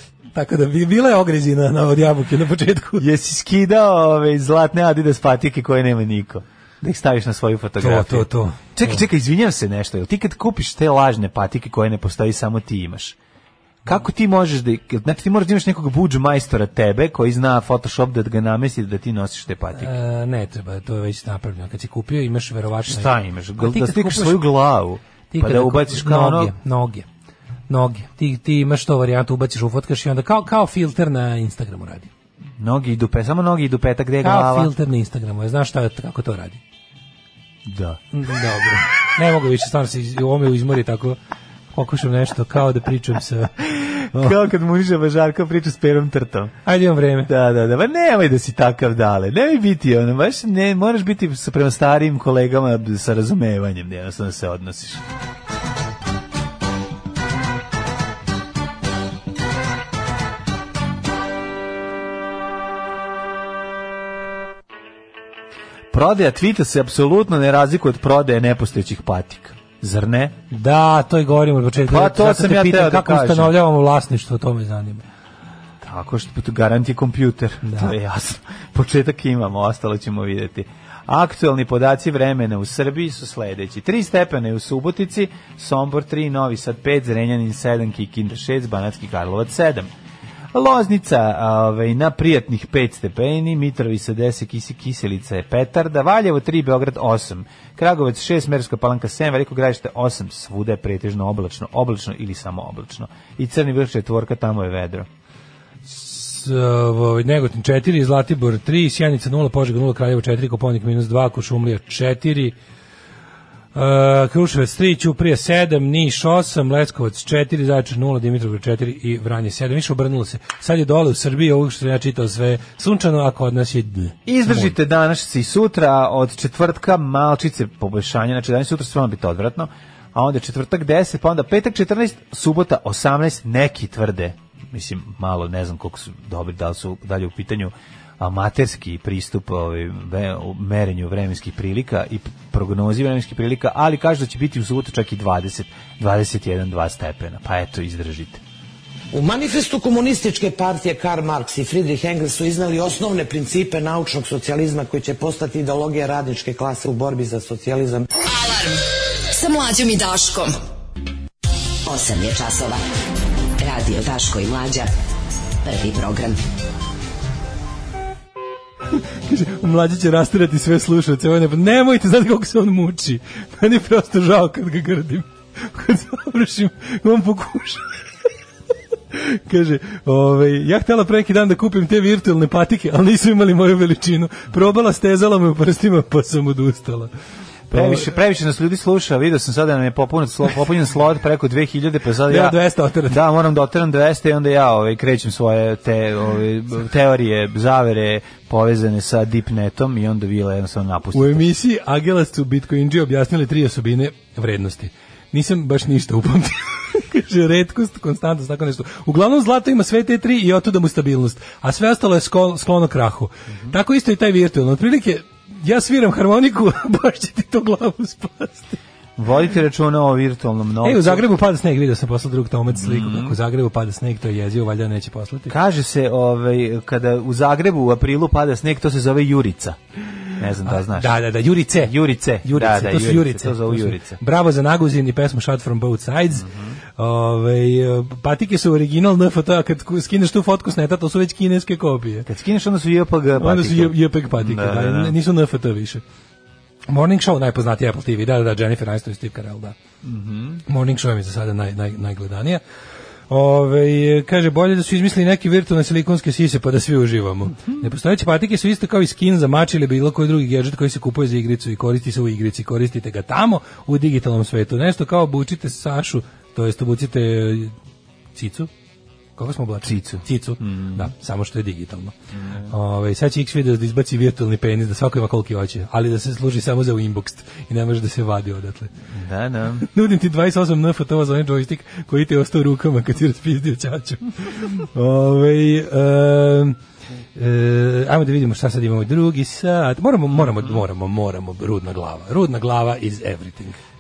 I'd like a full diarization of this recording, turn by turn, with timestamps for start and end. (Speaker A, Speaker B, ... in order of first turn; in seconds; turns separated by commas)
Speaker A: 0.3-3.0, Speaker B: 3.0-13.2, Speaker A: 7.8-9.0, Speaker B: 13.8-19.9, Speaker A: 19.8-24.4, Speaker B: 22.9-26.5, Speaker A: 25.3-27.1, Speaker A: 27.7-32.1, Speaker B: 32.6-34.7, Speaker A: 34.2-36.6, Speaker B: 37.7-38.0, Speaker A: 38.1-41.2, Speaker A: 41.7-44.4, Speaker B: 43.7-46.5, Speaker A: 46.6-47.3, Speaker B: 47.3-55.0, Speaker B: 65.9-70.4, Speaker A: 70.5-75.0, Speaker B: 71.8-73.5, Speaker B: 75.8-89.9, Speaker A: 77.6-77.9, Speaker B: 90.5-105.1, Speaker A: 105.9-112.5, Speaker A: 113.8-124.8, Speaker B: 124.3-148.4, Speaker C: 149.1-158.1, Speaker D: 158.2-160.6, Speaker E: 161.9-162.8, Speaker E: 163.6-164.9, Speaker E: 165.6-166.4, Speaker A: 169.0-177.9, Speaker A: 179.1-187.1, Speaker A: 187.7-188.1, Speaker B: 187.7-201.5, Speaker A: 192.3-193.2, Speaker A: 201.1-218.8, Speaker B: 219.2-221.3, Speaker A: 220.8-225.5, Speaker B: 222.7-223.4, Speaker B: 225.5-229.8, Speaker B: 230.4-231.2, Speaker A: 230.7-242.3, Speaker B: 231.8-234.2, Speaker B: 236.3-236.8, Speaker B: 242.3-245.1, Speaker A: 243.4-246.0, Speaker A: 246.9-249.8, Speaker B: 250.0-250.6, Speaker A: 250.7-252.6, Speaker A: 253.3-267.7, Speaker A: 268.4-268.7, Speaker A: 269.4-272.1, Speaker B: 269.8-271.1, Speaker B: 272.3-272.7, Speaker A: 272.7-278.9, Speaker B: 279.1-279.9, Speaker A: 279.8-286.8, Speaker A: 287.4-293.8, Speaker B: 290.4-290.8